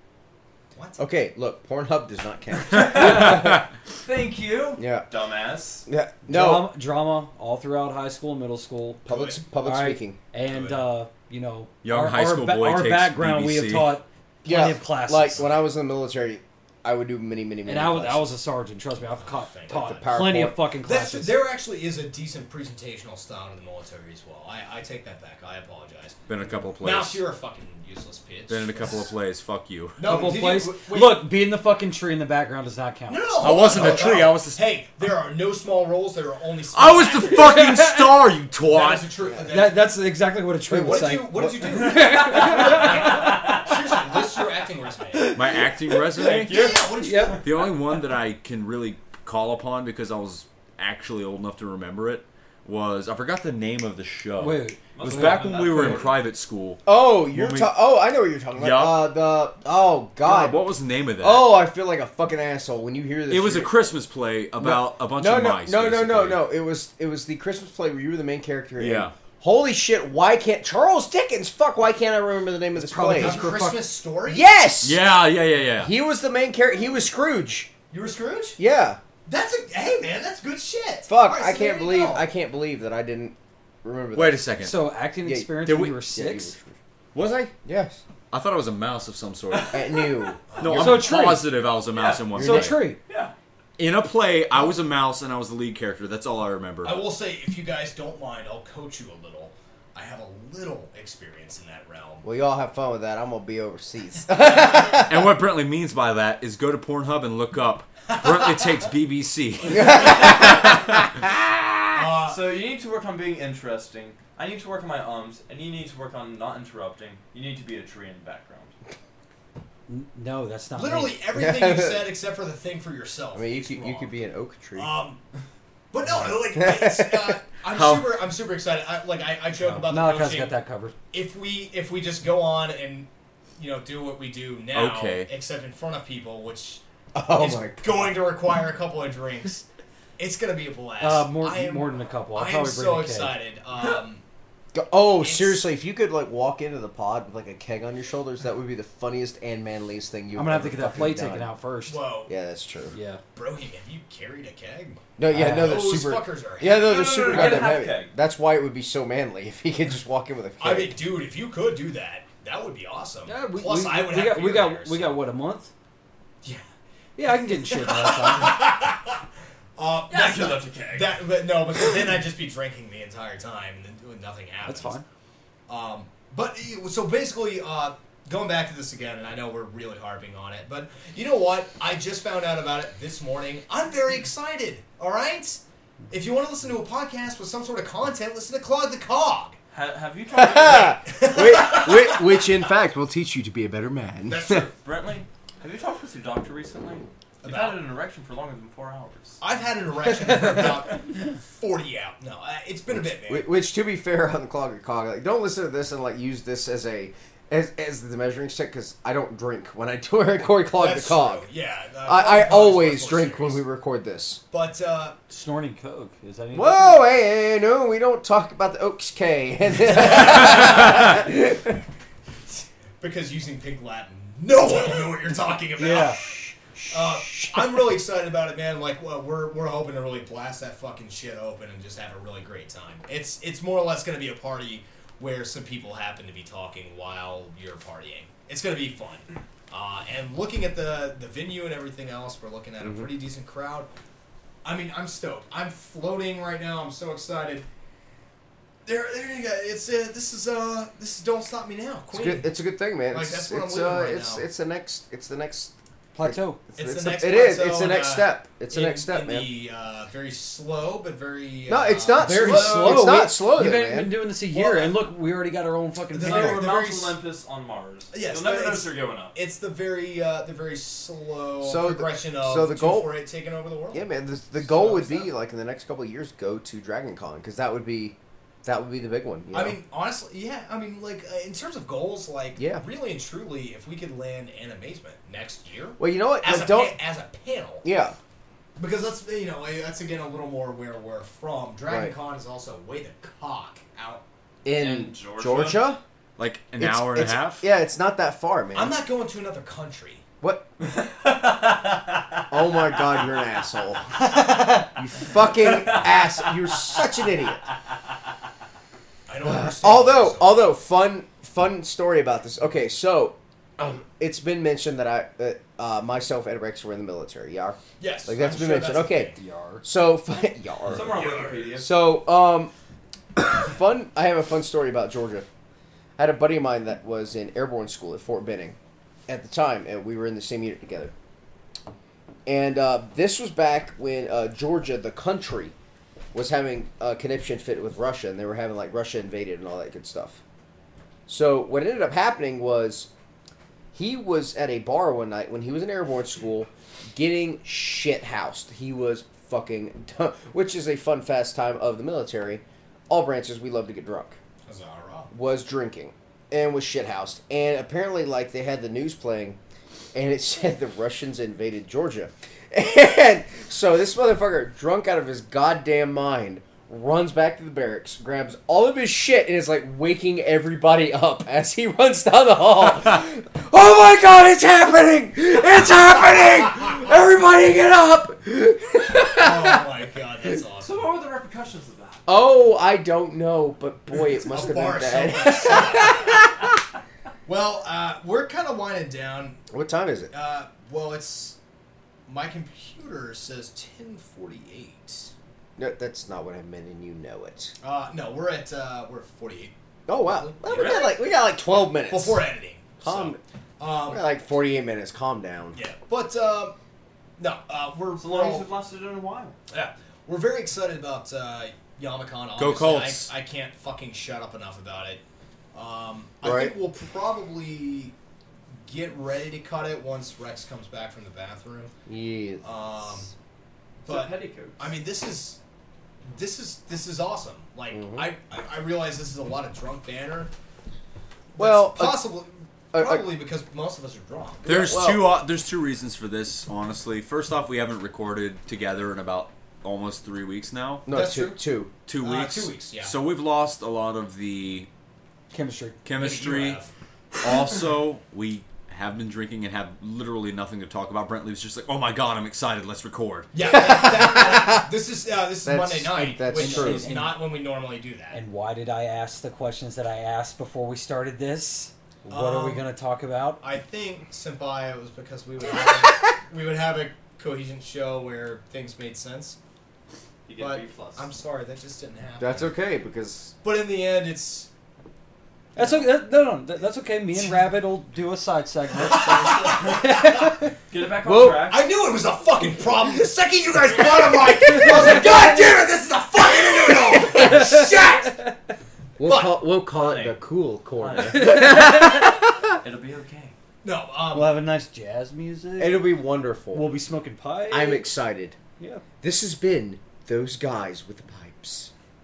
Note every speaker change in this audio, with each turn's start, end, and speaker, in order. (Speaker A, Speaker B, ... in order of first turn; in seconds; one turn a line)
Speaker A: 0.7-1.0
Speaker B: 1.0-3.6
Speaker C: 2.7-3.6
Speaker D: 2.7-3.3
Speaker E: 2.9-3.3
Speaker D: 4.0-5.8
Speaker B: 4.8-5.0
Speaker B: 5.8-6.7
Speaker E: 6.2-9.0
Speaker A: 9.1-9.4
Speaker B: 9.1-10.2
Speaker E: 9.6-15.5
Speaker D: 10.5-10.8
Speaker C: 11.8-14.0
Speaker B: 14.4-18.3
Speaker E: 17.6-21.4
Speaker A: 19.2-20.2
Speaker B: 19.7-20.6
Speaker A: 20.8-26.2
Speaker C: 26.3-27.2
Speaker A: 26.8-29.1
Speaker C: 28.5-30.3
Speaker A: 30.0-31.3
Speaker E: 30.0-34.1
Speaker A: 33.1-37.6
Speaker C: 33.4-34.6
Speaker C: 36.7-39.1
Speaker E: 37.3-38.3
Speaker A: 38.6-39.9
Speaker E: 39.5-43.7
Speaker B: 40.7-41.7
Speaker A: 40.7-45.3
Speaker D: 42.0-43.6
Speaker E: 45.3-45.6
Speaker C: 45.3-46.6
Speaker D: 46.1-46.9
Speaker A: 46.4-47.5
Speaker E: 47.0-47.4
Speaker C: 47.4-57.7
Speaker E: 54.4-56.1
Speaker D: 54.9-56.2
Speaker B: 56.9-60.6
Speaker C: 58.5-59.1
Speaker C: 60.2-61.5
Speaker B: 61.2-63.8
Speaker C: 63.3-66.4
Speaker B: 64.6-73.5
Speaker C: 68.8-69.1
Speaker E: 72.7-73.8
Speaker A: 73.2-74.6
Speaker B: 74.3-75.0
Speaker C: 74.8-75.9
Speaker B: 75.8-77.7
Speaker A: 77.9-78.6
Speaker B: 78.6-79.0
Speaker A: 79.2-82.3
Speaker B: 81.1-84.5
Speaker C: 84.1-84.8
Speaker E: 84.6-86.5
Speaker B: 85.2-86.7
Speaker C: 85.6-86.0
Speaker C: 87.1-87.5
Speaker B: 87.6-88.0
Speaker C: 88.3-90.0
Speaker D: 89.5-89.8
Speaker B: 89.7-91.1
Speaker A: 90.5-90.9
Speaker C: 90.6-92.9
Speaker E: 90.6-91.6
Speaker D: 91.8-92.4
Speaker B: 92.3-92.7
Speaker E: 92.4-93.0
Speaker D: 93.0-93.3
Speaker C: 93.8-97.0
Speaker A: 96.8-102.2
Speaker B: 102.2-105.3
Speaker C: 104.9-111.2
Speaker B: 109.7-111.7
Speaker A: 111.9-112.4
Speaker D: 112.2-118.7
Speaker E: 119.9-121.2
Speaker A: 120.7-124.1
Speaker B: 121.3-122.1
Speaker B: 123.3-124.9
Speaker A: 124.7-125.2
Speaker A: 125.9-130.6
Speaker B: 126.5-127.3
Speaker C: 127.7-128.2
Speaker E: 129.6-130.9
Speaker A: 131.1-133.1
Speaker A: 133.6-136.8
Speaker C: 134.7-135.3
Speaker B: 137.1-138.1
Speaker A: 137.3-139.6
Speaker A: 140.2-144.2
Speaker E: 141.0-143.3
Speaker B: 144.7-151.5
Speaker A: 145.2-145.6
Speaker E: 150.3-152.0
Speaker A: 151.8-152.3
Speaker B: 152.3-152.9
Speaker E: 152.9-153.2
Speaker A: 153.3-157.7
Speaker B: 155.2-161.0
Speaker E: 155.3-155.8
Speaker D: 156.7-158.1
Speaker A: 160.6-165.2
Speaker E: 163.3-165.7
Speaker E: 167.2-168.7
Speaker A: 167.3-169.2
Speaker A: 169.8-175.0
Speaker D: 170.1-171.1
Speaker E: 174.6-175.0
Speaker A: 175.7-189.6
Speaker D: 189.7-191.0
Speaker B: 190.3-194.6
Speaker A: 190.9-192.5
Speaker A: 194.3-194.7
Speaker D: 194.4-199.4
Speaker A: 197.4-197.8
Speaker A: 199.4-203.5
Speaker B: 202.9-211.5
Speaker A: 210.8-213.6
Speaker B: 212.0-214.4
Speaker A: 214.5-215.2
Speaker E: 215.3-217.1
Speaker B: 216.5-221.8
Speaker A: 219.9-220.9
Speaker A: 223.0-226.2
Speaker E: 225.8-226.2
Speaker B: 226.8-227.8
Speaker A: 226.9-243.9
Speaker A: 244.6-247.7
Speaker A: 248.8-252.6
Speaker B: 252.1-259.5
Speaker A: 253.1-254.5
Speaker E: 256.1-256.6
Speaker A: 256.8-263.2
Speaker B: 261.7-264.2
Speaker E: 262.1-266.7
Speaker A: 264.5-265.0
Speaker A: 266.1-267.2
Speaker D: 266.1-269.4
Speaker A: 268.1-275.3
Speaker B: 271.6-273.1
Speaker B: 273.9-279.8
Speaker A: 279.5-287.9
Speaker B: 282.6-282.8
Speaker B: 286.0-287.0
Speaker B: 287.8-288.1
Speaker A: 288.8-294.2
Speaker B: 291.9-292.1
Speaker B: 294.6-296.0
Speaker D: 294.8-295.8
Speaker C: 296.4-297.6
Speaker B: 296.8-298.9
Speaker A: 298.7-300.2
Speaker B: 300.4-300.7
Speaker D: 300.8-303.2
Speaker B: 302.5-307.6
Speaker D: 305.3-307.1
Speaker A: 309.3-310.7
Speaker B: 309.4-321.2
Speaker A: 318.0-319.4
Speaker E: 319.4-319.8
Speaker D: 320.9-321.9
Speaker A: 320.9-321.8
Speaker B: 321.7-322.7
Speaker B: 323.4-325.4
Speaker B: 326.2-328.8
Speaker B: 329.3-331.1
Speaker B: 332.5-335.7
Speaker B: 336.3-340.4
Speaker B: 341.3-343.1
Speaker B: 343.9-354.4
Speaker A: 354.7-355.3
Speaker B: 355.3-359.6
Speaker B: 360.1-379.8
Speaker A: 379.4-381.1
Speaker D: 380.8-382.2
Speaker B: 382.2-386.6
Speaker A: 384.4-386.4
Speaker A: 387.5-389.6
Speaker B: 389.7-390.3
Speaker A: 390.3-391.6
Speaker A: 392.3-395.3
Speaker B: 395.8-397.7
Speaker A: 397.8-401.0
Speaker B: 400.1-402.4
Speaker D: 400.6-401.1
Speaker A: 401.7-404.2
Speaker B: 403.0-403.4
Speaker B: 404.1-405.8
Speaker A: 405.7-406.8
Speaker A: 407.4-408.7
Speaker D: 408.2-409.6
Speaker A: 409.7-415.2
Speaker C: 412.6-413.3
Speaker A: 415.7-418.1
Speaker B: 416.4-416.7
Speaker A: 418.9-421.9
Speaker B: 422.1-422.6
Speaker A: 422.6-423.3
Speaker D: 424.0-424.9
Speaker A: 424.1-425.6
Speaker A: 426.3-430.5
Speaker B: 427.9-428.3
Speaker A: 431.5-434.8
Speaker B: 431.6-432.3
Speaker B: 432.9-433.3
Speaker B: 434.6-435.4
Speaker C: 434.6-441.1
Speaker B: 441.1-441.9
Speaker A: 441.1-441.6
Speaker C: 442.1-444.9
Speaker A: 442.2-443.1
Speaker E: 445.5-446.0
Speaker C: 446.0-446.8
Speaker A: 446.1-446.9
Speaker C: 447.4-453.5
Speaker A: 453.5-458.4
Speaker B: 453.6-454.9
Speaker B: 455.6-457.1
Speaker E: 456.5-457.4
Speaker E: 458.3-463.6
Speaker A: 462.3-462.9
Speaker A: 463.6-469.6
Speaker D: 470.4-471.3
Speaker A: 470.6-472.7
Speaker B: 472.4-473.5
Speaker A: 473.6-474.7
Speaker A: 475.8-476.1
Speaker E: 475.8-480.7
Speaker A: 477.3-477.6
Speaker A: 479.0-480.6
Speaker D: 480.9-481.9
Speaker B: 481.2-481.7
Speaker A: 481.6-488.3
Speaker E: 484.7-485.4
Speaker B: 484.7-485.2
Speaker B: 487.1-487.9
Speaker E: 487.3-488.5
Speaker B: 489.2-492.6
Speaker A: 489.2-489.6
Speaker D: 489.9-490.4
Speaker D: 491.0-491.9
Speaker E: 491.2-492.3
Speaker D: 492.8-493.5
Speaker A: 493.8-494.6
Speaker E: 494.3-496.1
Speaker B: 495.8-496.9
Speaker E: 496.7-498.1
Speaker B: 497.7-498.6
Speaker B: 499.2-501.9